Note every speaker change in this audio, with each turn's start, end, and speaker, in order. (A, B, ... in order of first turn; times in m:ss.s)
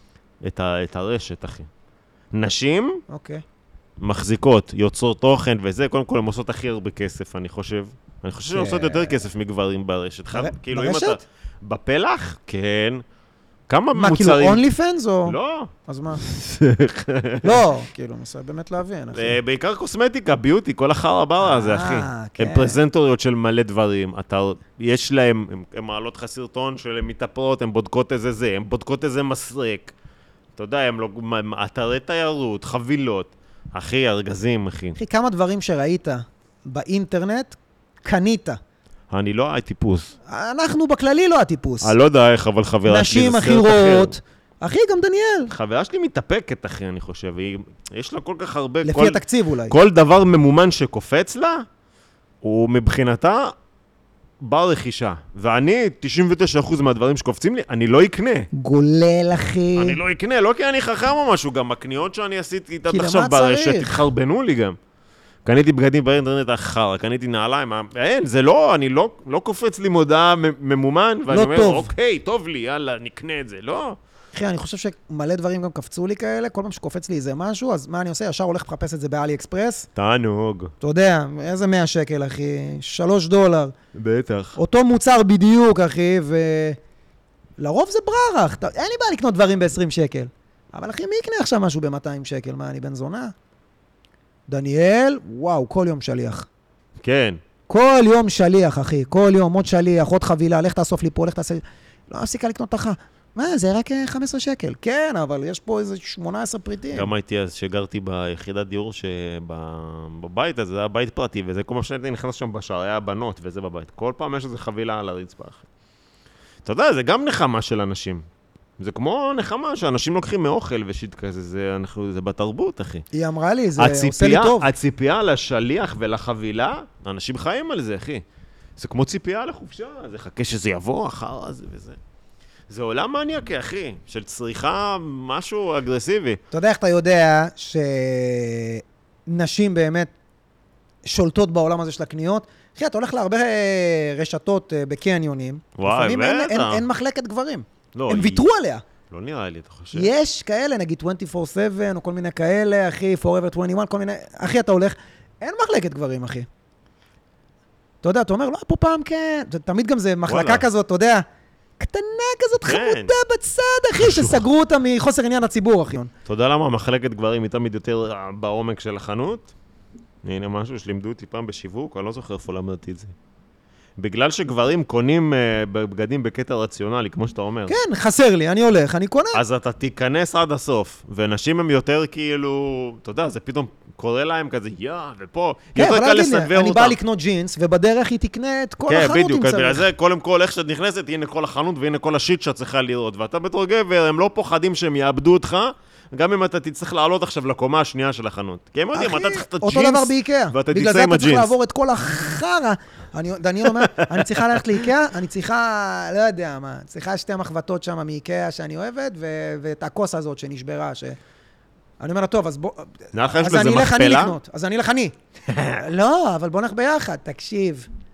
0:00.4-0:01.7 A
0:02.3-0:03.0 A
0:03.1-0:03.4 B
0:04.0-0:13.0 A
0:08.5-0:09.2 B
0:10.3-0:11.2 B
0:13.7-0:14.6 A
0:13.9-0:16.2 B
0:15.2-0:17.7 A
0:17.4-0:19.4 B
0:19.1-0:29.9 A
0:21.4-0:22.8 B
0:30.6-0:35.0 A
0:35.0-0:38.6 B
0:39.1-0:40.1 A
0:40.3-0:41.9 B
0:41.8-0:44.1 A
0:42.8-0:45.5 B
0:45.5-0:51.6 A
0:48.8-0:49.8 B
0:52.4-0:53.5 A
0:54.4-0:58.5 A
0:58.5-1:00.0 B
0:59.8-1:04.8 A
1:02.9-1:04.0 B
1:05.4-1:14.0 A
1:11.3-1:11.9 B
1:14.3-1:19.9 B
1:20.0-1:20.7 A
1:20.8-1:23.7 B
1:23.9-1:24.6 A
1:24.6-1:26.8 B
1:27.6-1:33.3 B
1:34.5-1:36.5 B
1:37.0-1:37.4 A
1:37.7-1:47.1 B
1:46.9-1:55.6 A
1:56.6-1:58.2 A
1:58.8-2:03.0 A
2:03.1-2:04.7 B
2:03.8-2:08.2 A
2:08.8-2:12.0 A
2:12.7-2:16.4 A
2:16.5-2:20.1 B
2:21.0-2:28.8 B
2:25.8-2:26.8 A
2:27.9-2:28.4 A
2:29.1-2:30.1 A
2:29.9-2:36.5 B
2:38.0-2:41.2 B
2:40.3-2:40.6 A
2:41.8-2:46.1 B
2:42.6-2:43.1 A
2:44.0-2:44.4 A
2:46.2-2:49.5 A
2:50.2-2:53.1 A
2:54.0-2:57.7 A
2:57.7-2:59.4 B
2:59.3-3:07.0 A
3:05.8-3:09.8 B
3:08.9-3:21.5 A
3:18.9-3:31.2 B
3:23.6-3:24.8 A
3:32.0-3:35.1 B
3:33.1-3:34.4 A
3:35.5-3:35.8 A
3:35.8-3:37.9 B